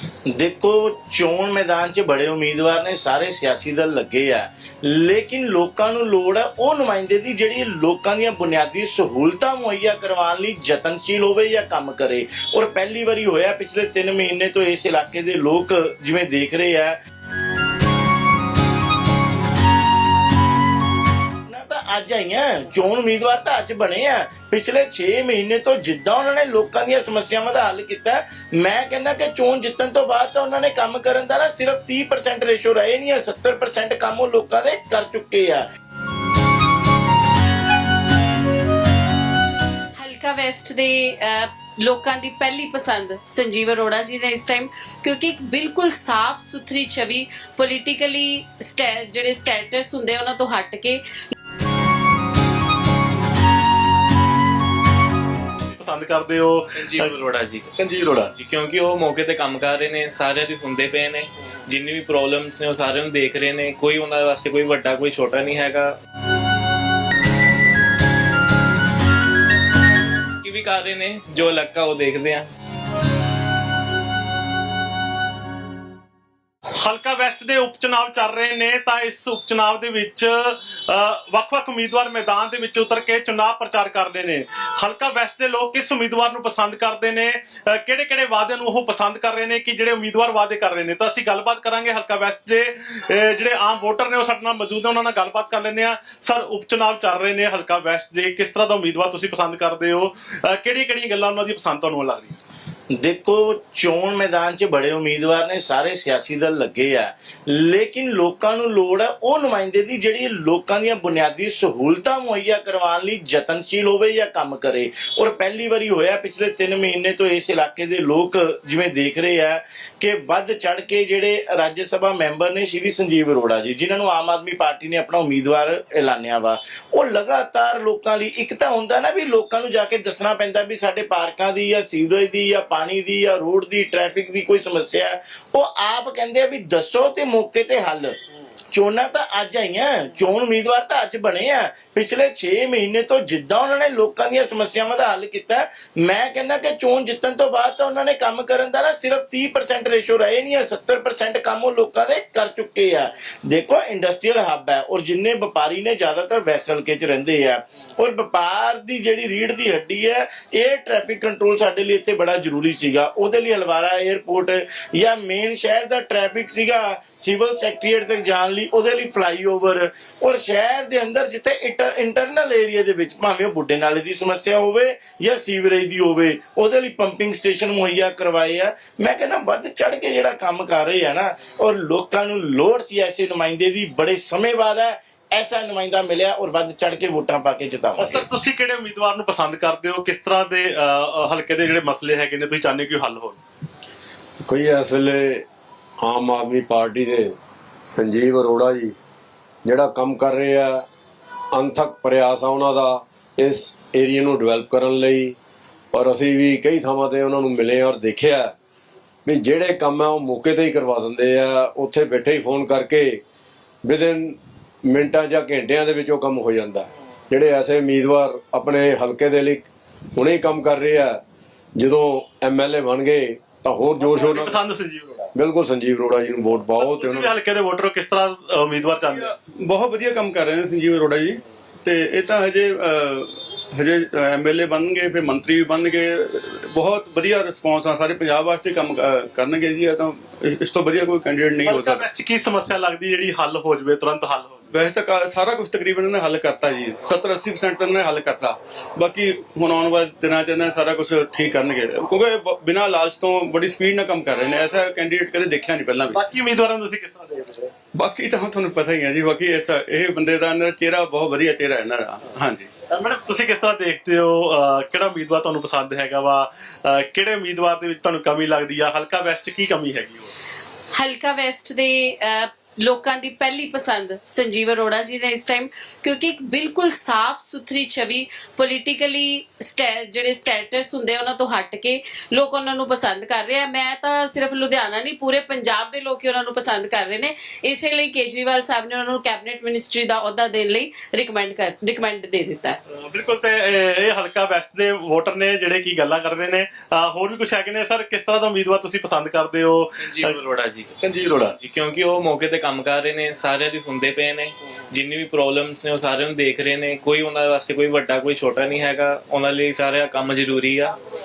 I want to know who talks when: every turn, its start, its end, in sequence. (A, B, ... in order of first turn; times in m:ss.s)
0:00.4-0:17.0 A
0:21.5-0:35.6 A
0:40.0-0:51.0 B
0:55.7-0:57.1 C
0:56.8-0:57.7 D
0:57.7-0:58.3 C
0:58.3-1:06.0 D
1:10.4-1:12.5 D
1:16.8-1:42.4 C
1:42.9-2:18.2 A
2:18.7-3:08.2 A
3:08.0-3:13.4 C
3:14.4-3:15.4 E
3:16.0-3:17.4 E
3:17.9-3:18.9 E
3:19.6-3:20.8 E
3:21.5-3:25.4 E
3:25.9-3:28.5 E
3:29.2-3:33.2 E
3:33.8-3:41.2 E
3:41.8-3:44.6 E
3:44.1-3:45.3 C
3:45.4-3:47.3 E
3:46.7-3:49.3 C
3:49.1-4:02.0 F
4:01.6-4:04.6 C
4:04.7-4:16.2 F
4:16.1-4:17.7 C
4:18.0-4:22.7 F
4:22.9-4:30.4 C
4:30.9-4:52.8 B
4:52.9-5:00.4 C
5:00.0-5:00.9 D
5:00.9-5:01.6 C
5:01.6-5:11.0 D